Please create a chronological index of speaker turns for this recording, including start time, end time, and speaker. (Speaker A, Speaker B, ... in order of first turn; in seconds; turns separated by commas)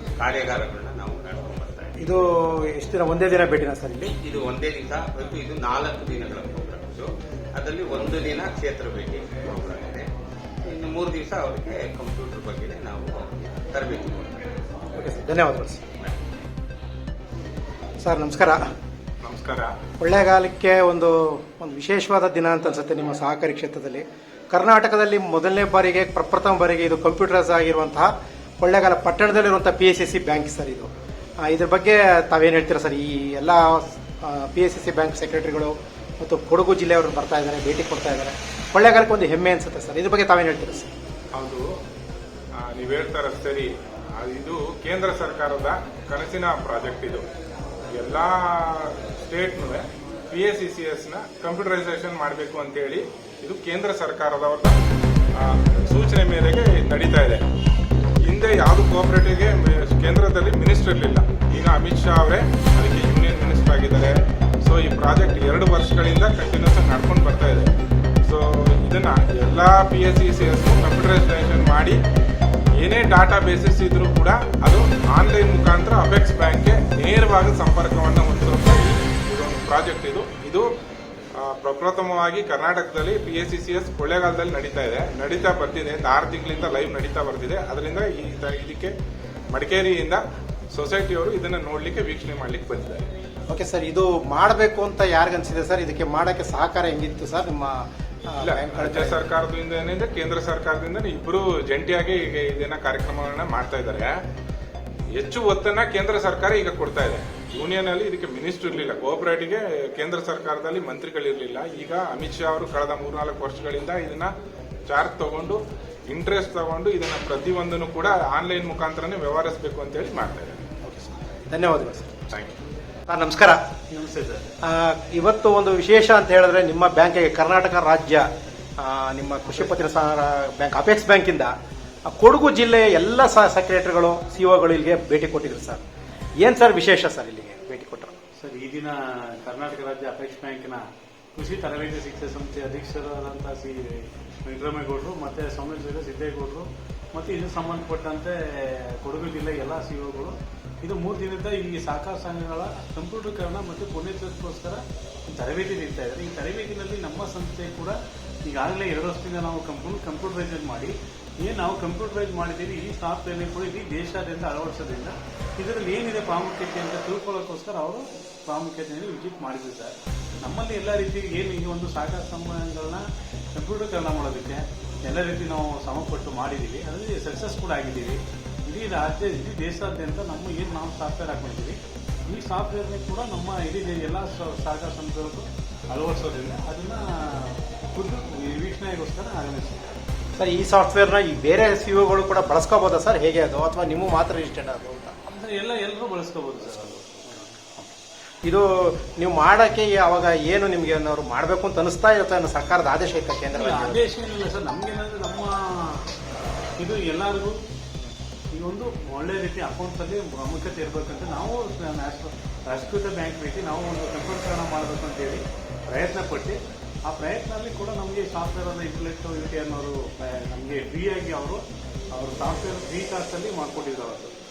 Speaker A: 0.1-2.1, Speaker B: 2.0-4.1, Speaker A: 4.0-10.1, Speaker A: 10.7-14.4, Speaker B: 14.9-15.8, Speaker B: 18.0-18.6, Speaker C: 19.2-19.7, Speaker B: 20.0-28.1, Speaker B: 28.6-30.9, Speaker B: 31.4-40.9, Speaker C: 41.4-41.6, Speaker C: 42.6-47.3, Speaker C: 48.0-54.7, Speaker C: 55.9-57.4, Speaker C: 58.3-64.1, Speaker C: 64.7-67.7, Speaker C: 68.3-72.0, Speaker C: 72.8-80.7, Speaker C: 81.5-88.9, Speaker C: 89.5-90.2, Speaker C: 90.7-93.0, Speaker B: 93.5-99.3, Speaker C: 98.4-104.1, Speaker C: 105.2-114.3, Speaker C: 114.9-120.6, Speaker B: 120.8-122.3, Speaker B: 123.1-123.6, Speaker D: 123.9-124.5, Speaker B: 124.7-128.2, Speaker B: 128.8-131.5, Speaker B: 132.1-135.8, Speaker B: 136.4-138.1, Speaker D: 138.4-140.8, Speaker D: 141.3-173.0, Speaker D: 173.5-189.9, Speaker B: 190.4-195.2, Speaker D: 195.3-197.5, Speaker B: 197.6-197.9, Speaker B: 198.4-204.0, Speaker D: 203.5-206.1, Speaker D: 206.8-207.5, Speaker D: 208.5-216.6, Speaker D: 217.1-221.6, Speaker D: 222.1-224.3